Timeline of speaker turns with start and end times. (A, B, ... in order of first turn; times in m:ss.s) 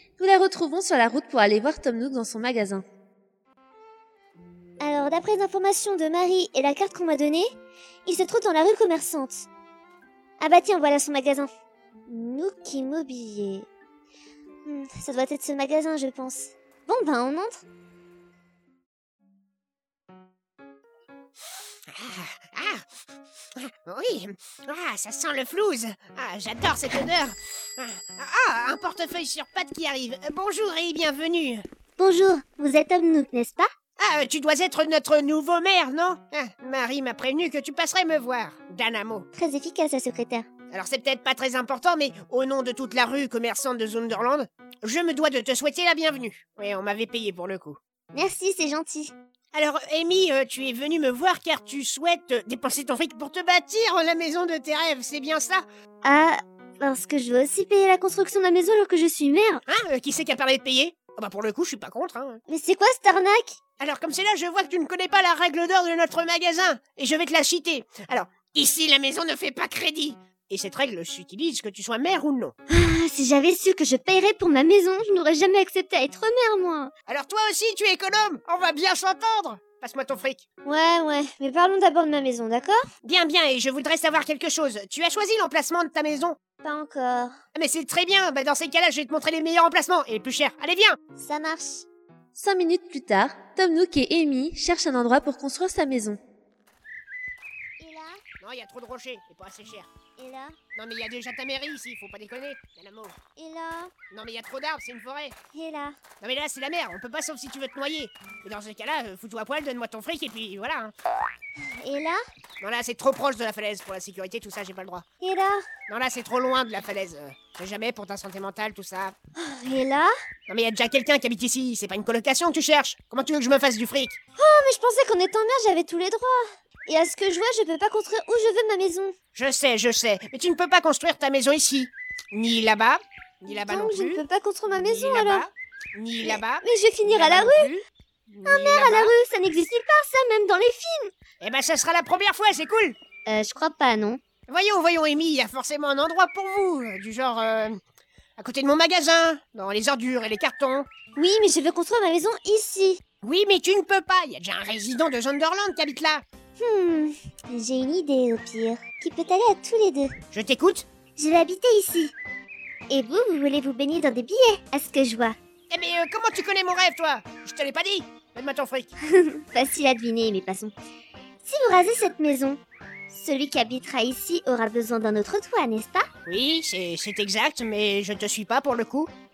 0:00.2-0:02.8 A
0:04.8-0:07.5 B
0:08.1-0:09.5 B
0:10.4-0:11.5 B
0:12.1-0:13.7 B
0:14.7-0:17.6 B
0:21.9-0:22.9 C
0:23.6-0:31.6 C
0:32.0-0:33.7 B
0:34.0-0:39.3 C
0:39.3-0:40.5 B
0:40.7-0:47.8 C
0:48.1-0:49.1 B
0:49.5-0:55.6 C
0:56.0-0:59.6 B
0:59.7-1:02.4 C
1:02.5-1:03.6 B
1:03.8-1:12.6 C
1:12.7-1:16.9 B
1:17.1-1:20.4 C
1:20.6-1:22.8 B
1:23.0-1:26.4 C
1:26.6-1:27.3 B
1:27.5-1:31.0 C
1:31.2-1:31.9 B
1:32.4-1:36.2 A
1:37.8-1:38.2 B
1:38.4-1:39.9 C
1:40.2-1:40.6 B
1:40.8-1:43.2 C
1:43.4-1:43.9 B
1:44.1-1:45.4 C
1:45.5-1:46.0 B
1:46.2-1:50.9 C
1:51.8-1:52.2 B
1:52.6-1:55.0 C
1:55.2-1:55.6 B
1:55.9-1:59.2 C
1:59.4-2:00.1 B
2:00.5-2:04.2 C
2:04.4-2:09.1 B
2:09.4-2:14.2 C
2:13.5-2:15.4 B
2:14.7-2:19.1 C
2:16.2-2:17.7 B
2:18.5-2:21.1 B
2:21.4-2:23.0 C
2:23.3-2:24.2 B
2:24.5-2:27.8 C
2:28.4-2:30.9 C
2:31.2-2:33.0 B
2:33.2-2:36.2 C
2:36.6-2:40.2 B
2:40.3-2:40.9 C
2:41.2-2:42.2 B
2:42.9-2:45.4 B
2:45.7-2:48.9 C
2:49.1-2:50.7 B
2:51.4-2:52.6 B
2:53.1-2:56.1 B
2:56.3-2:59.1 C